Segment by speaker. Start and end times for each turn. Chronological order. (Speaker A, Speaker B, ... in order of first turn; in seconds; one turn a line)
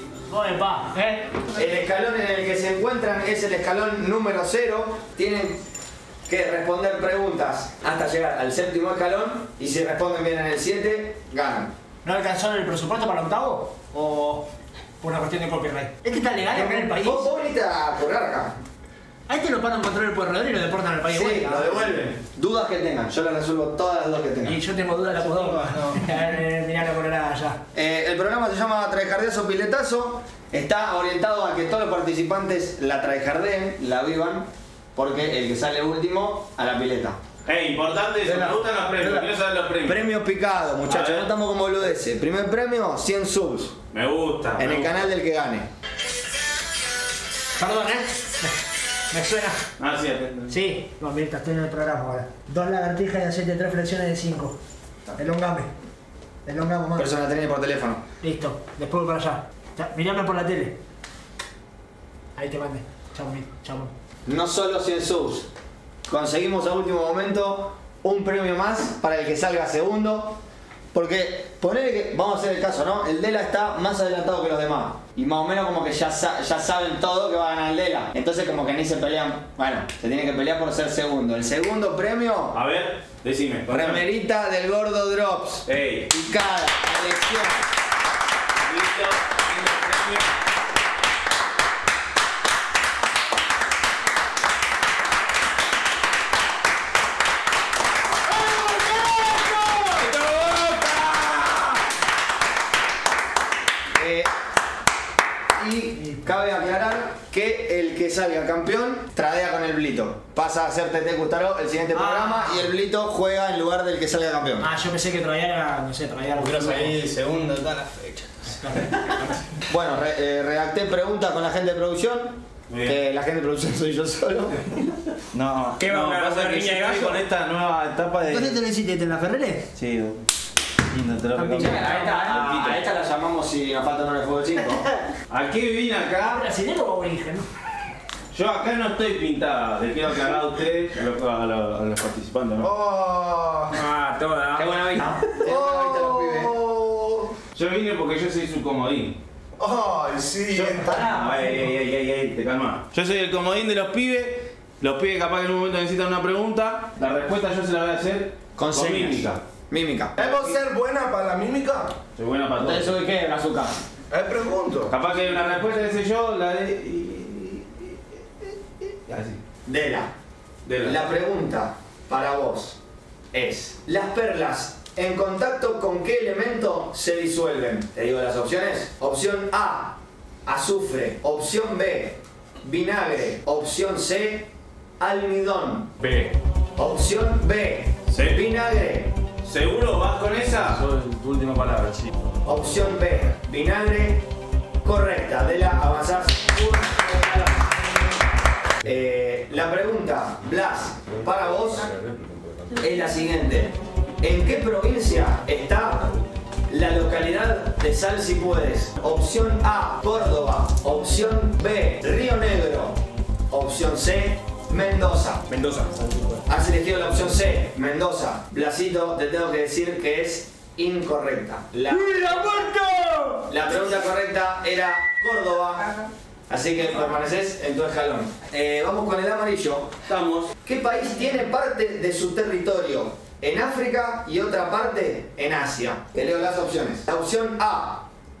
Speaker A: 0.3-1.4
Speaker B: 1.5-5.6
Speaker B: 6.3-11.7
Speaker A: 12.0-14.5
Speaker A: 15.0-17.3
Speaker B: 16.5-18.6
Speaker A: 19.3-22.1
Speaker B: 21.1-24.6
Speaker A: 24.4-27.6
Speaker C: 25.3-25.9
Speaker B: 27.7-37.2
Speaker D: 37.4-40.1
Speaker B: 38.3-39.2
Speaker B: 39.8-43.8
Speaker D: 40.9-41.3
Speaker D: 43.9-45.1
Speaker B: 44.6-45.7
Speaker A: 47.6-48.5
Speaker A: 49.1-49.6
Speaker D: 49.8-50.6
Speaker A: 50.5-54.6
Speaker A: 55.1-55.7
Speaker A: 56.4-57.1
Speaker B: 56.9-58.0
Speaker A: 58.2-60.8
Speaker A: 62.3-63.9
Speaker B: 64.2-65.5
Speaker B: 66.1-70.4
Speaker B: 70.9-82.6
Speaker D: 82.5-84.0
Speaker B: 83.7-87.7
Speaker D: 85.7-86.1
Speaker D: 88.6-90.3
Speaker D: 98.2-101.8
Speaker B: 104.0-104.3
Speaker B: 105.6-114.7
Speaker C: 112.0-112.7
Speaker A: 114.6-117.0
Speaker C: 116.4-118.5
Speaker A: 118.5-119.4
Speaker B: 119.7-124.9
Speaker D: 122.7-123.0
Speaker D: 125.3-128.6
Speaker E: 125.8-127.2
Speaker A: 128.3-129.7
Speaker D: 129.7-130.2
Speaker D: 130.9-132.8
Speaker A: 131.4-132.2
Speaker B: 131.5-134.9
Speaker D: 135.3-136.5
Speaker A: 136.2-137.5
Speaker D: 138.3-142.7
Speaker F: 142.6-143.8
Speaker E: 143.7-144.9
Speaker B: 144.5-146.6
Speaker F: 145.4-147.3
Speaker D: 147.5-149.2
Speaker F: 149.6-151.1
Speaker D: 150.5-159.4
Speaker A: 151.0-151.6
Speaker B: 158.6-160.5
Speaker F: 160.2-162.0
Speaker D: 162.2-163.0
Speaker B: 162.6-163.8
Speaker F: 164.1-164.9
Speaker D: 164.9-168.0
Speaker D: 169.1-169.4
Speaker B: 169.7-170.1
Speaker D: 170.6-171.1
Speaker B: 170.8-172.8
Speaker B: 173.3-185.9
Speaker D: 186.0-186.3
Speaker B: 186.8-189.2
Speaker D: 188.1-188.4
Speaker D: 189.4-190.8
Speaker C: 190.9-191.9
Speaker B: 192.4-194.3
Speaker B: 194.8-198.0
Speaker B: 198.8-201.9
Speaker B: 202.8-206.1
Speaker B: 206.7-215.4
Speaker E: 215.5-215.9
Speaker C: 216.0-216.4
Speaker B: 216.4-222.7
Speaker A: 221.9-223.5
Speaker B: 223.5-225.9
Speaker B: 226.5-229.9
Speaker D: 230.0-230.5
Speaker B: 230.6-238.1